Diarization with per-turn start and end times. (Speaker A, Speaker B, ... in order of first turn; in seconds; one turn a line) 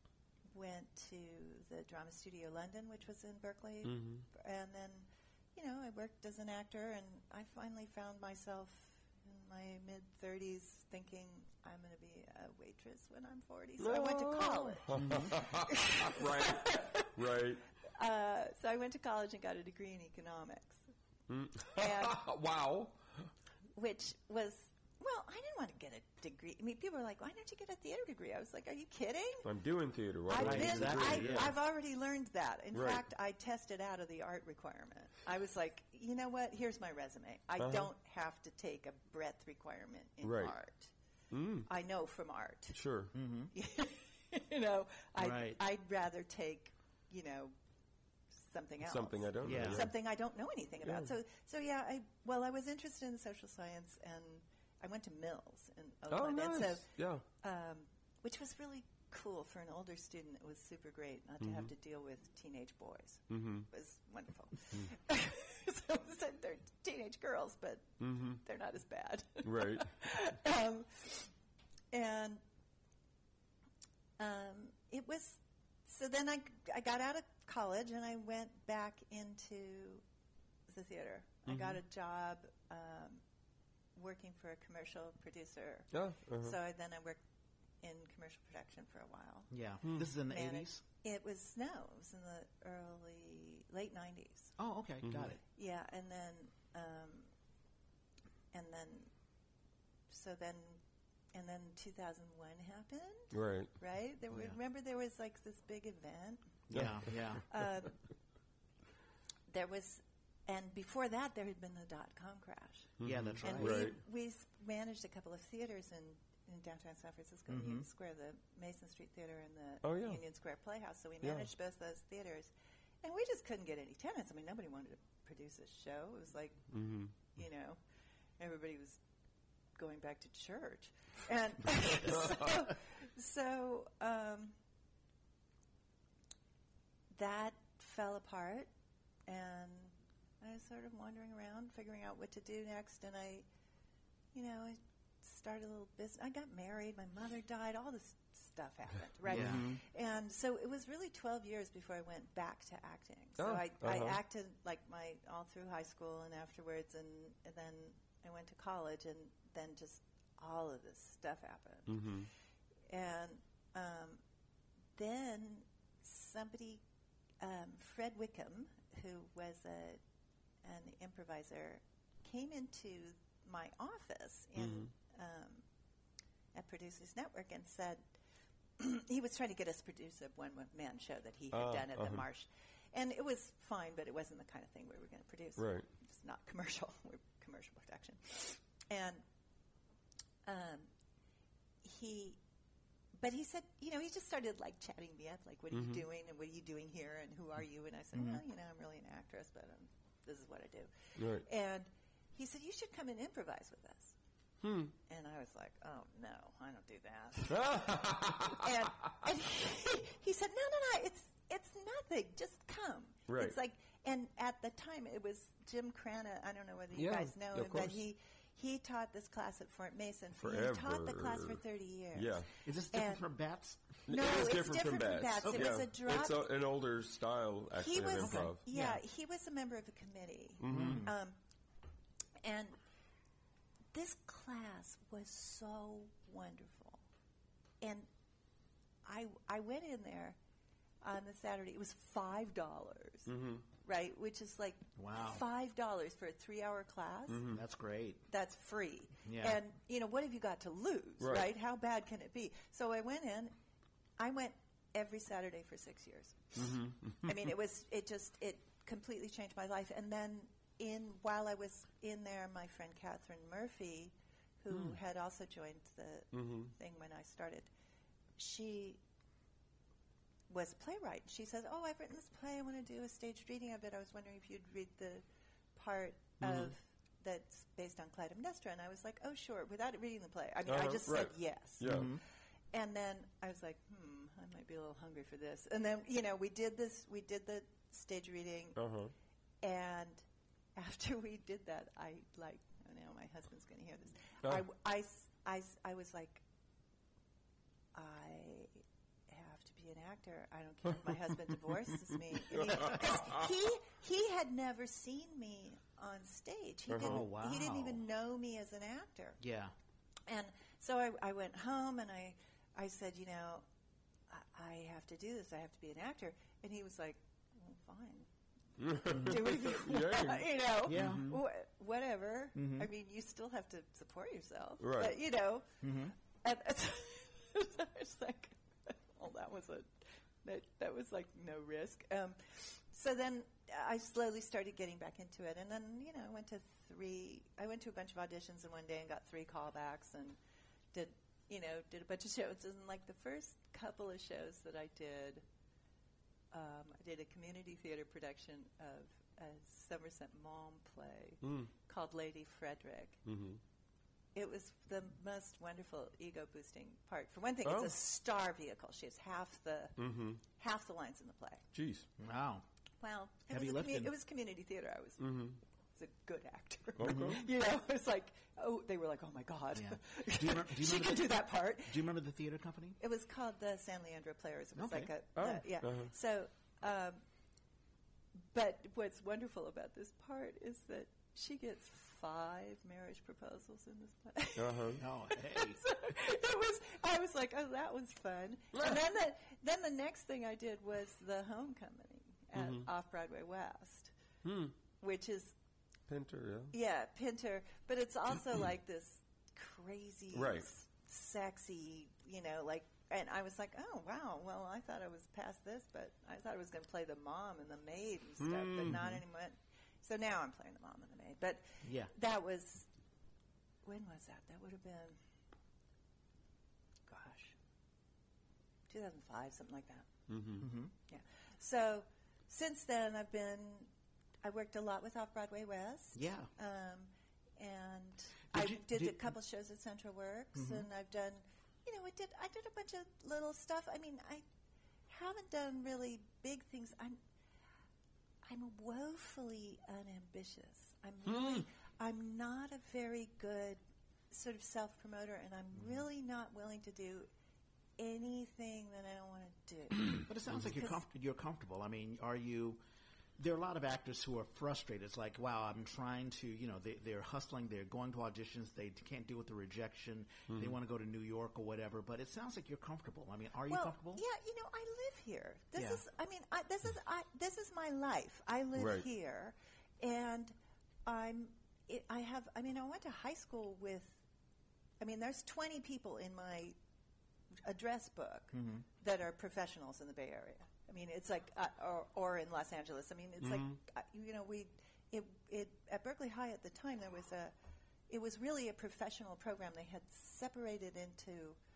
Speaker A: 0.5-17.2
Speaker B: 3.8-4.2
Speaker B: 13.8-17.6
Speaker C: 14.9-15.4
Speaker A: 17.9-20.8
Speaker B: 21.3-23.3
Speaker A: 21.7-22.2
Speaker A: 23.8-29.5
Speaker B: 29.4-31.5
Speaker A: 30.3-40.9
Speaker C: 30.3-31.5
Speaker B: 32.7-33.0
Speaker B: 37.6-37.9
Speaker B: 40.2-40.5
Speaker B: 41.3-41.7
Speaker A: 41.7-42.8
Speaker B: 42.7-43.1
Speaker C: 43.1-43.5
Speaker A: 43.5-47.5
Speaker C: 45.2-45.6
Speaker A: 48.3-71.3
Speaker B: 48.8-49.9
Speaker C: 49.4-49.9
Speaker B: 50.8-51.1
Speaker B: 56.1-57.2
Speaker B: 61.4-61.7
Speaker B: 63.3-63.7
Speaker B: 68.0-68.4
Speaker B: 69.4-69.9
Speaker A: 71.9-72.4
Speaker A: 74.2-80.0
Speaker A: 80.7-83.2
Speaker B: 81.5-81.8
Speaker A: 83.9-87.2
Speaker B: 85.9-86.6
Speaker A: 87.8-89.5
Speaker C: 89.5-90.8
Speaker A: 90.2-94.5
Speaker C: 94.6-95.4
Speaker B: 95.0-95.3
Speaker A: 95.5-97.3
Speaker A: 98.5-99.1
Speaker A: 100.1-100.8
Speaker A: 101.3-106.7
Speaker B: 103.3-103.7
Speaker C: 104.3-104.6
Speaker C: 106.7-107.4
Speaker B: 106.7-107.0
Speaker A: 107.5-108.0
Speaker A: 109.5-122.5
Speaker B: 113.0-114.0
Speaker C: 113.0-113.9
Speaker C: 117.5-117.8
Speaker B: 119.8-120.2
Speaker B: 121.2-121.5
Speaker A: 123.0-126.7
Speaker B: 126.7-127.1
Speaker A: 127.3-127.8
Speaker A: 128.4-129.0
Speaker A: 129.8-134.6
Speaker B: 132.1-132.5
Speaker A: 137.1-138.7
Speaker A: 139.3-143.4
Speaker A: 144.3-162.2
Speaker C: 149.3-149.8
Speaker B: 149.3-149.7
Speaker B: 153.4-154.2
Speaker B: 161.9-162.3
Speaker A: 162.9-164.2
Speaker A: 164.9-166.8
Speaker A: 167.4-170.0
Speaker A: 170.6-175.6
Speaker B: 174.6-174.9
Speaker A: 176.5-178.0
Speaker A: 178.8-189.2
Speaker B: 181.5-182.2
Speaker B: 185.6-185.9
Speaker A: 190.4-190.9
Speaker A: 191.8-192.4
Speaker A: 193.1-204.2
Speaker B: 195.7-196.0
Speaker C: 198.1-198.4
Speaker B: 201.2-201.4
Speaker B: 204.6-204.9
Speaker A: 205.1-223.2
Speaker B: 207.5-208.7
Speaker B: 213.3-213.6
Speaker B: 216.9-218.0
Speaker B: 220.4-221.6
Speaker B: 222.1-222.5
Speaker C: 222.6-223.8
Speaker B: 224.1-228.6
Speaker A: 224.1-226.5
Speaker A: 227.8-231.3
Speaker C: 228.2-229.0
Speaker B: 230.6-231.1
Speaker C: 230.7-231.1
Speaker A: 232.4-232.8
Speaker A: 233.9-237.0
Speaker A: 237.8-238.1
Speaker A: 239.0-240.4
Speaker A: 241.0-247.5
Speaker B: 243.3-243.6
Speaker C: 245.0-245.4
Speaker B: 247.3-247.6
Speaker C: 247.5-248.2
Speaker A: 248.3-253.5
Speaker C: 249.2-249.6
Speaker B: 251.2-251.5
Speaker A: 254.2-267.7
Speaker B: 256.6-257.1
Speaker B: 266.3-266.7
Speaker A: 268.4-269.0
Speaker A: 270.5-275.2
Speaker A: 275.7-282.1
Speaker B: 276.4-276.7
Speaker B: 280.7-282.1
Speaker C: 281.8-282.2
Speaker A: 282.7-288.8
Speaker B: 288.8-289.1
Speaker A: 289.6-290.2
Speaker A: 290.8-296.4
Speaker A: 297.9-309.4
Speaker B: 302.5-303.5
Speaker B: 306.9-307.2
Speaker C: 307.0-308.0
Speaker C: 309.4-309.7
Speaker A: 310.3-313.6
Speaker A: 314.3-318.3
Speaker B: 318.8-321.3
Speaker C: 319.1-319.4
Speaker A: 319.1-340.4
Speaker C: 320.9-321.4
Speaker C: 322.5-322.9
Speaker B: 324.8-325.1
Speaker C: 325.8-326.1
Speaker A: 340.9-345.4
Speaker A: 346.5-353.2
Speaker B: 351.4-351.7
Speaker B: 353.2-353.6
Speaker A: 354.3-360.0
Speaker B: 357.6-357.9
Speaker B: 360.0-360.4
Speaker A: 360.6-361.6
Speaker B: 361.7-362.1
Speaker C: 362.2-362.6
Speaker A: 363.0-372.1
Speaker C: 363.5-364.1
Speaker B: 365.2-365.6
Speaker B: 367.0-367.4
Speaker C: 367.0-367.5
Speaker C: 369.7-373.0
Speaker A: 373.0-377.2
Speaker C: 374.7-375.1
Speaker B: 375.4-376.1
Speaker A: 378.4-394.1
Speaker B: 384.6-385.0
Speaker C: 384.9-385.8
Speaker B: 392.5-392.9
Speaker B: 394.4-394.7
Speaker A: 395.0-395.5
Speaker B: 396.1-396.7
Speaker A: 396.7-412.9
Speaker B: 400.3-400.7
Speaker B: 408.4-409.0
Speaker C: 408.9-409.2
Speaker C: 411.8-412.1
Speaker A: 413.8-415.1
Speaker A: 417.1-417.5
Speaker A: 418.9-420.1
Speaker B: 420.3-420.6
Speaker C: 420.6-420.9
Speaker A: 421.1-423.9
Speaker A: 424.4-434.4
Speaker C: 426.1-426.5
Speaker C: 428.5-429.2
Speaker C: 430.5-430.9
Speaker A: 435.1-437.2
Speaker A: 438.4-443.8
Speaker A: 444.3-447.3
Speaker A: 448.0-451.0
Speaker C: 450.2-452.8
Speaker C: 453.4-464.2
Speaker A: 463.7-470.5
Speaker C: 465.8-466.0
Speaker B: 468.8-469.1
Speaker A: 471.1-474.2
Speaker A: 475.0-476.8
Speaker A: 477.6-487.5
Speaker C: 478.5-478.8
Speaker B: 483.4-483.7
Speaker A: 488.1-491.6